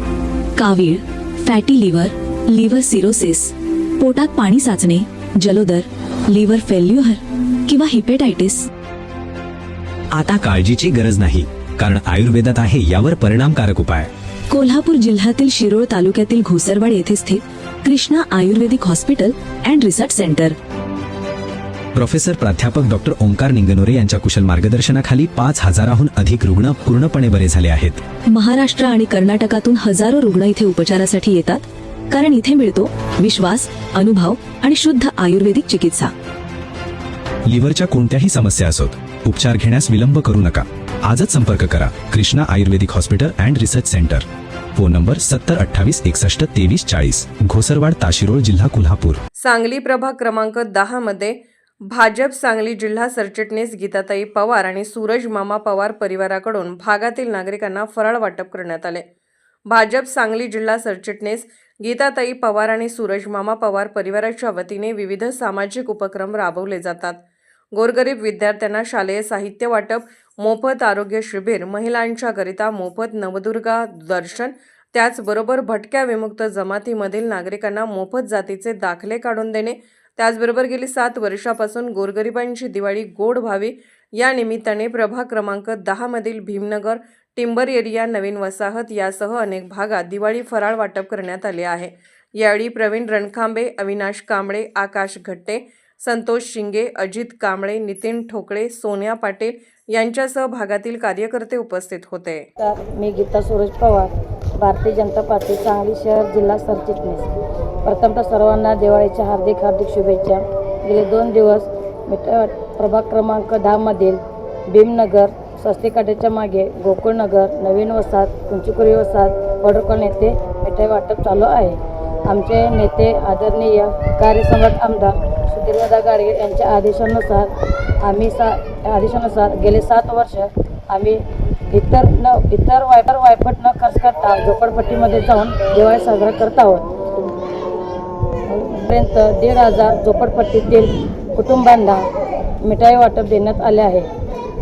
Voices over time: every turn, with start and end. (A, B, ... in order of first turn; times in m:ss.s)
0:00.6-0:08.7 A
0:10.1-0:14.1 B
0:14.5-0:20.6 A
0:21.9-0:28.0 B
0:28.3-0:36.1 A
0:37.5-0:49.2 B
0:49.4-0:51.4 C
0:51.9-0:59.0 C
0:59.7-1:07.2 C
1:07.7-1:42.4 C
1:42.6-1:47.3 D
1:47.8-2:07.5 D
2:08.0-2:16.8 D
2:18.5-2:22.0 D
2:22.6-2:24.1 D